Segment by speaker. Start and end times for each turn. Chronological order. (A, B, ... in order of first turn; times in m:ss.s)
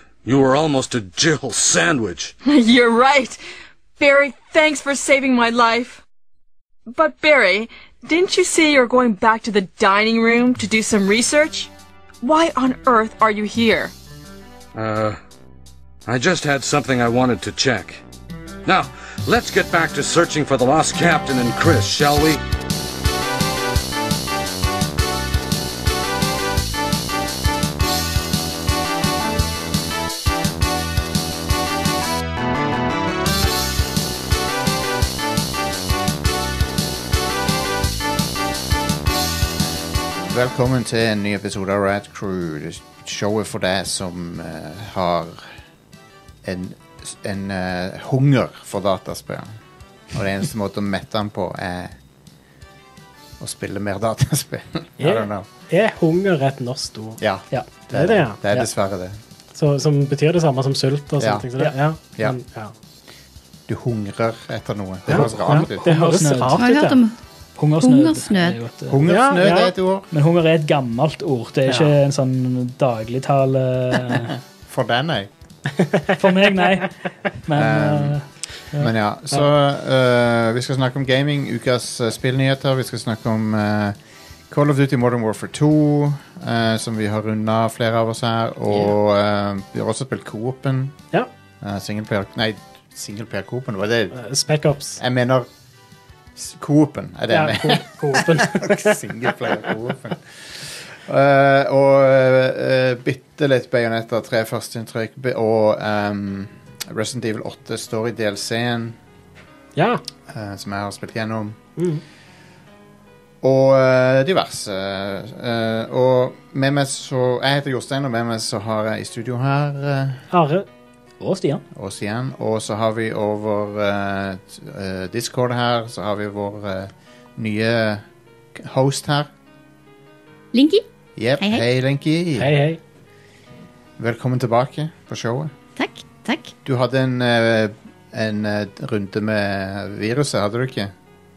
0:00.2-0:02.3 A
0:02.4-0:03.4 B
0:04.0-0:06.0 B
0:06.9-0:11.7 B
0:12.2-0:13.9 B
0:14.7-0:15.2 A
0:16.0-0:18.0 A
0:18.6-0:22.4 A
0:40.1-0:45.5 C
0:46.4-0:49.6 C
0:50.1-0:52.0 C
0:53.4-0:55.4 C
0:55.0-0:57.2 D
0:57.2-0:59.2 C
0:57.9-0:58.4 D
0:59.5-1:02.7 D
1:01.2-1:01.6 C
1:03.7-1:05.8 C
1:05.1-1:06.9 D
1:05.5-1:07.0 E
1:06.6-1:07.2 F
1:07.6-1:09.0 E
1:07.8-1:08.6 F
1:08.9-1:10.1 C
1:09.0-1:09.7 D
1:10.1-1:14.4 E
1:11.7-1:11.9 D
1:14.7-1:15.3 C
1:15.8-1:16.2 D
1:16.2-1:18.2 E
1:17.5-1:18.2 C
1:18.7-1:24.0 C
1:24.5-1:31.0 C
1:31.6-1:34.2 C
1:34.1-1:35.0 D
1:35.0-1:35.5 C
1:36.4-1:49.0 C
1:37.3-1:39.3 D
1:49.8-1:50.0 D
1:50.3-1:51.6 C
1:51.8-1:52.0 D
1:53.4-2:00.2 C
2:00.3-2:00.6 D
2:01.2-2:01.6 E
2:01.7-2:09.3 C
2:10.5-2:10.8 F
2:11.2-2:12.6 C
2:11.4-2:11.6 F
2:12.4-2:12.8 D
2:14.0-2:15.5 C
2:15.8-2:16.5 F
2:16.6-2:20.9 C